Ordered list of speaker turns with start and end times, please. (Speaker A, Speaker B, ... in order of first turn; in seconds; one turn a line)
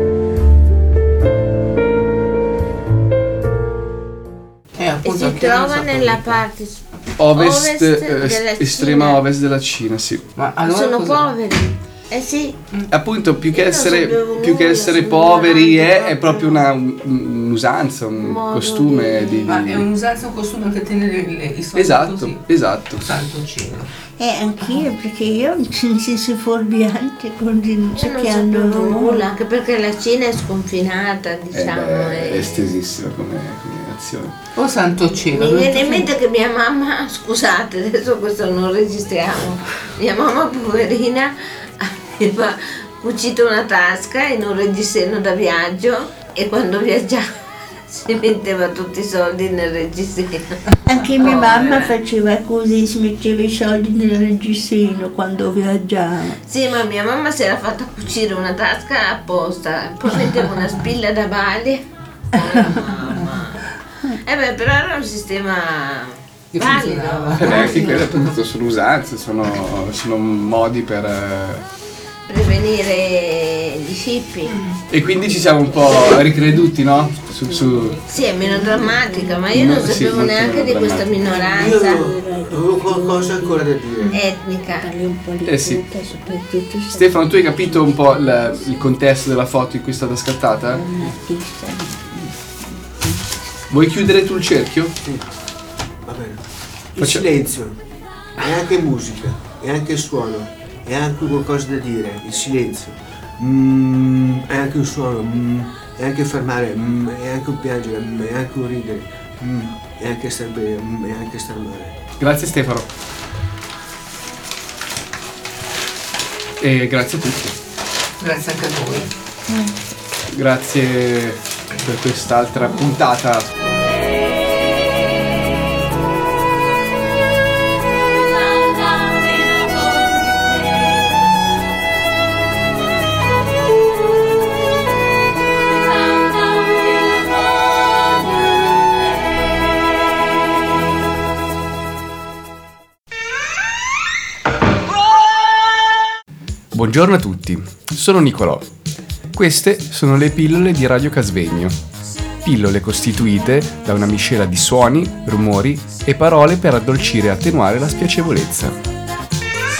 Speaker A: 4.7-6.4
Speaker B: 5.0-9.2
Speaker C: 7.2-10.2
Speaker A: 10.4-11.3
Speaker B: 10.6-12.6
Speaker C: 12.9-19.9
Speaker B: 13.5-16.6
Speaker B: 18.1-19.6
Speaker A: 19.5-23.9
Speaker C: 21.7-23.1
Speaker D: 24.2-29.2
Speaker B: 27.9-32.8
Speaker C: 31.5-34.4
Speaker A: 34.5-36.1
Speaker B: 35.3-47.2
Speaker B: 47.9-52.0
Speaker D: 50.8-56.4
Speaker B: 56.5-68.0
Speaker A: 66.5-68.3
Speaker C: 67.4-71.6
Speaker B: 72.3-74.6
Speaker A: 74.5-74.8
Speaker C: 74.9-78.0
Speaker D: 75.5-79.8
Speaker B: 78.1-82.0
Speaker C: 79.5-81.4
Speaker D: 81.3-84.2
Speaker E: 81.5-84.2
Speaker B: 84.1-84.9
Speaker D: 84.7-89.0
Speaker C: 85.4-85.8
Speaker C: 86.9-90.8
Speaker D: 90.6-93.3
Speaker C: 93.7-94.9
Speaker E: 96.0-96.4
Speaker E: 96.9-97.8
Speaker C: 97.0-97.2
Speaker E: 98.4-112.0
Speaker C: 112.2-112.9
Speaker C: 116.6-117.6
Speaker A: 118.2-119.1
Speaker C: 120.3-123.5
Speaker C: 146.7-148.7
Speaker C: 149.3-151.8
Speaker C: 152.4-158.8